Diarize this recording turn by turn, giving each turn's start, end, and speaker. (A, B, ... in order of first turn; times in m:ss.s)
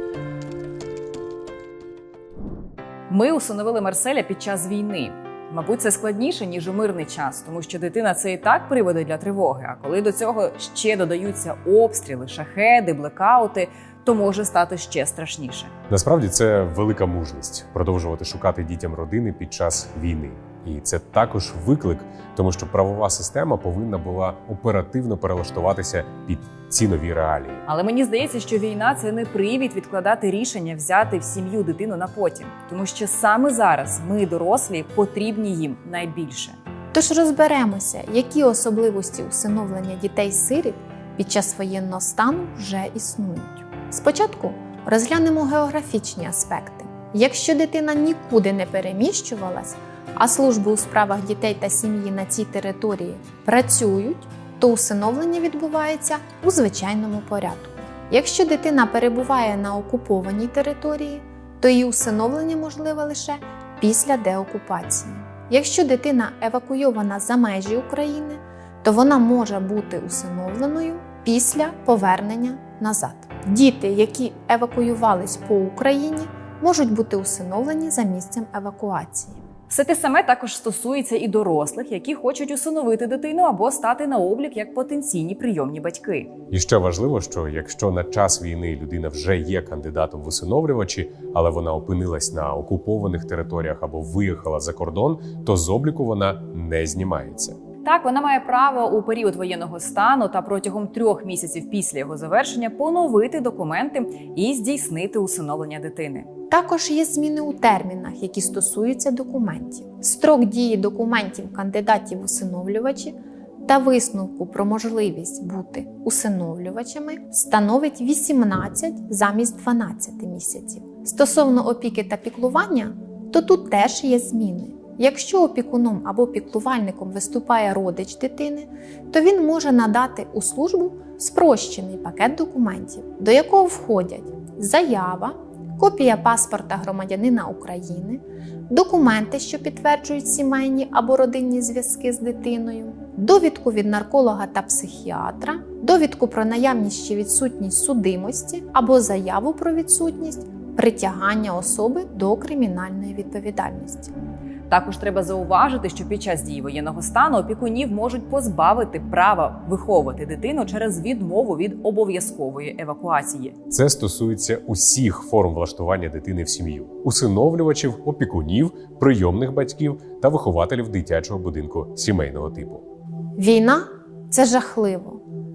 0:03.1-0:15.7 A
0:15.9-0:27.6 B
0:27.7-0:36.6 A
0:36.9-1:19.4 C
1:19.7-1:26.3 A
1:26.5-1:37.6 B
1:37.8-1:46.3 A
1:46.5-2:34.1 C
2:34.7-2:43.6 A
2:43.7-2:52.8 B
2:53.4-2:55.2 C